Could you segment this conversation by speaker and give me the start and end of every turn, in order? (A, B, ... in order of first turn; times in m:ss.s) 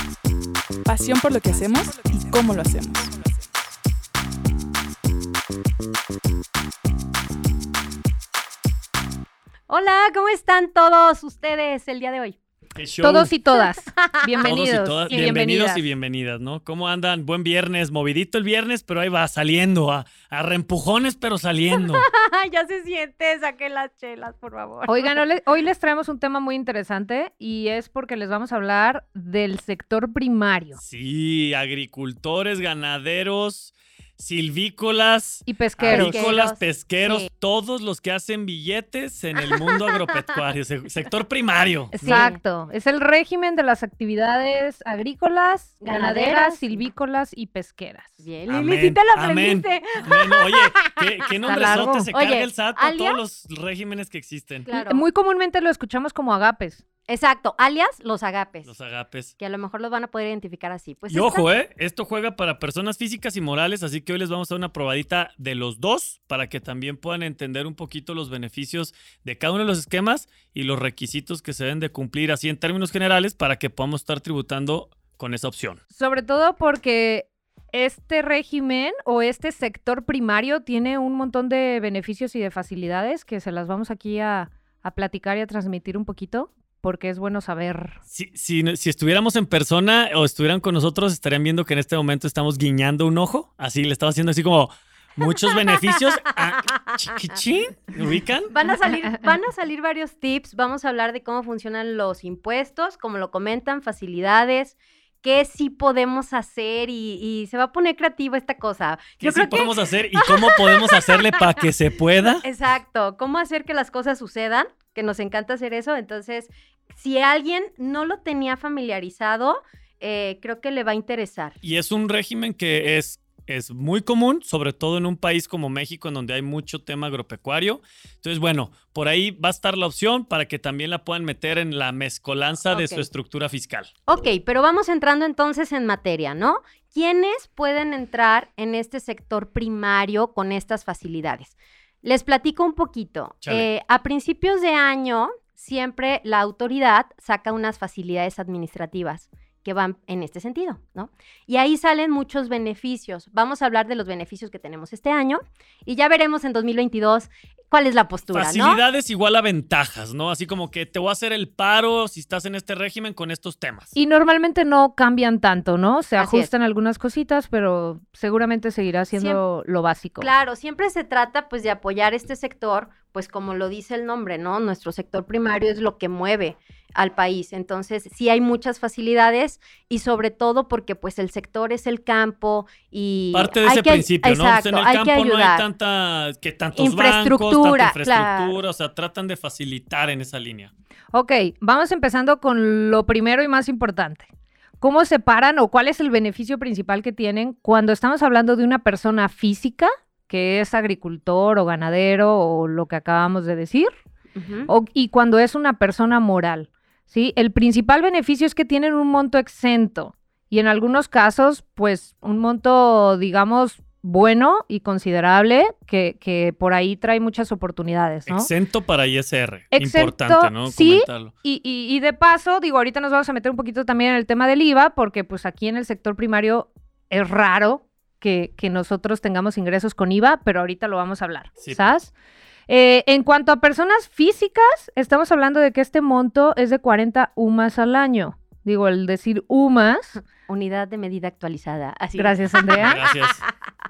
0:00.8-0:03.1 A
0:09.7-0:12.4 B
0:12.8-0:13.3 C
0:13.0-0:15.9 D
0:13.6-0:14.5 B
0:14.4-0:22.1 C
0:21.8-0:25.2 B
0:24.9-0:30.8 D
0:30.8-0:42.3 C
0:35.4-0:36.4 D
0:35.8-0:37.3 B
0:41.9-0:48.2 D
0:42.0-0:42.4 B
0:45.8-0:46.9 B
0:48.2-0:53.2 B
0:48.5-0:54.7 C
0:51.5-0:52.1 D
0:54.7-0:55.1 B
0:54.7-0:56.8 D
0:57.1-0:58.7 B
0:58.7-0:59.4 C
0:59.4-1:01.5 B
1:01.1-1:15.8 C
1:15.9-1:28.0 D
1:28.1-1:38.5 C
1:35.4-1:36.9 B
1:38.5-1:51.2 B
1:49.2-1:52.4 C
1:52.4-2:01.6 B
2:01.6-2:13.9 C
2:12.7-2:13.1 B
2:14.1-2:38.8 B
2:38.3-2:43.9 C
2:44.0-2:50.3 D
2:46.2-2:46.5 B
2:49.1-2:49.4 B
2:50.2-3:05.6 B
3:03.3-3:10.7 C
3:06.8-3:08.6 B
3:11.1-3:14.3 D
3:14.8-3:23.9 D
3:24.4-3:24.7 B
3:24.7-3:38.5 D
3:38.3-3:41.3 C
3:39.7-3:52.1 D
3:52.7-4:00.2 D
4:00.5-4:03.5 B
4:02.2-4:03.0 D
4:02.8-4:03.4 C